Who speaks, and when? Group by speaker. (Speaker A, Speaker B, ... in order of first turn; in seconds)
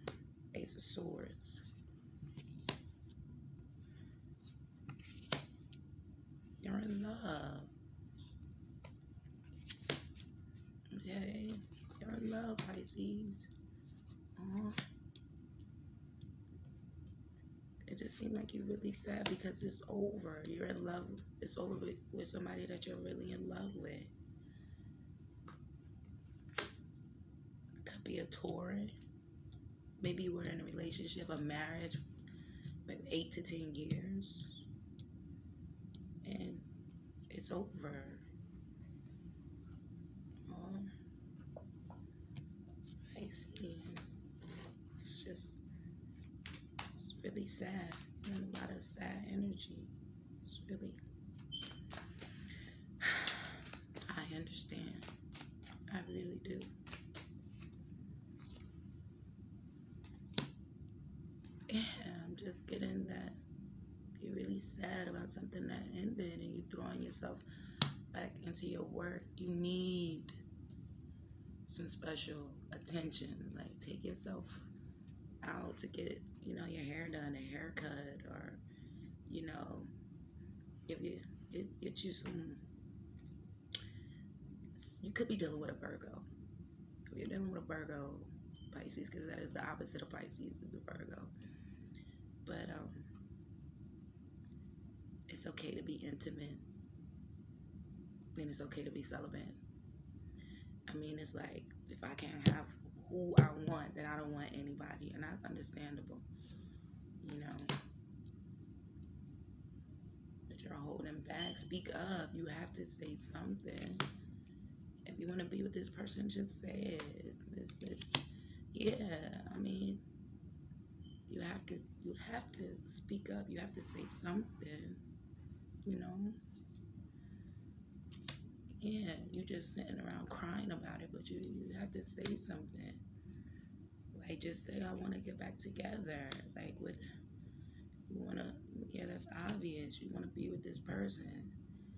Speaker A: 0.5-1.6, 6.6-7.7, 10.9-13.6, 14.4-14.8, 17.9-24.1, 27.8-29.0, 30.0-32.0, 32.9-34.5, 36.2-36.7, 37.3-38.3, 40.5-40.9, 43.1-44.1, 44.9-45.6, 47.0-51.0, 53.0-55.1, 55.9-56.7, 61.7-63.4, 64.2-67.5, 68.1-70.4, 71.7-74.7, 75.4-78.6, 79.3-79.9, 80.9-82.7, 84.8-86.3, 87.1-91.3, 92.4-93.1, 95.3-96.7, 98.3-99.6, 100.9-106.3, 107.2-107.8, 110.5-114.1, 115.0-120.0, 121.3-125.0, 125.8-126.4, 128.8-133.0, 134.1-137.0, 138.1-141.6